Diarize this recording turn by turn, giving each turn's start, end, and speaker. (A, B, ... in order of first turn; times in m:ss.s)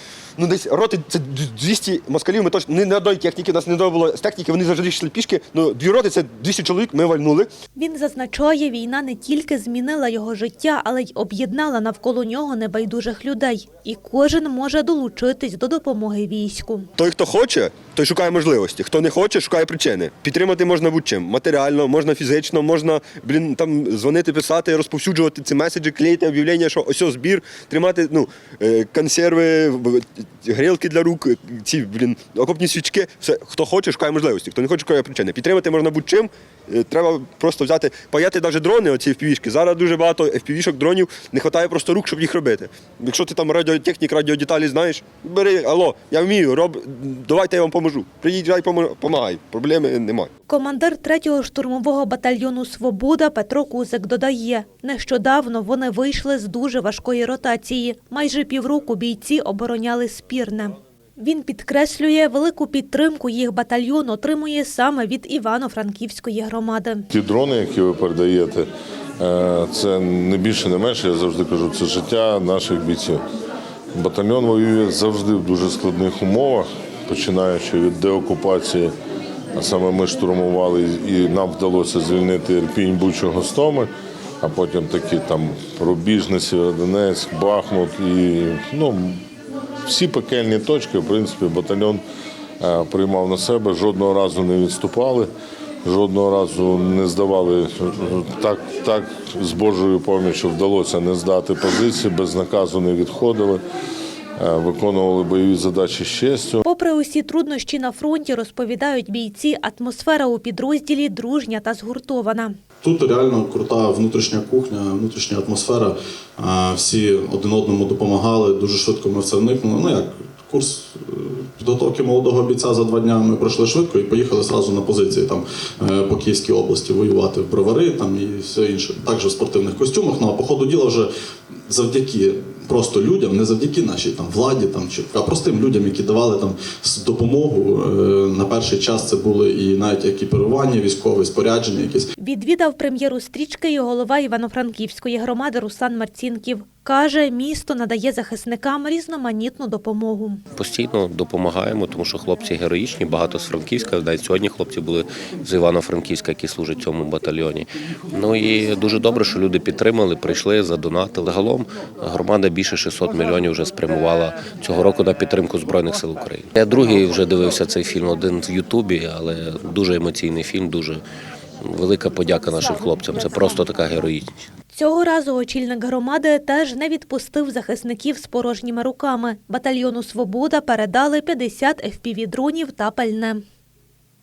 0:00.4-0:07.5 A
0:07.8-0:16.9 B
0:17.0-0:50.3 A
0:50.5-1:07.0 B
1:07.1-1:13.2 C
1:13.9-1:18.9 C
1:19.5-1:23.9 C
1:24.4-1:29.2 C
1:29.8-1:32.0 C
1:32.6-1:35.3 C
1:35.8-1:43.6 C
1:44.4-1:46.6 C
1:46.6-1:52.5 B
1:52.8-2:11.1 D
2:11.6-2:22.1 D
2:22.2-2:30.4 B
2:30.5-2:51.0 E
2:51.6-2:54.4 E
2:54.7-3:03.4 B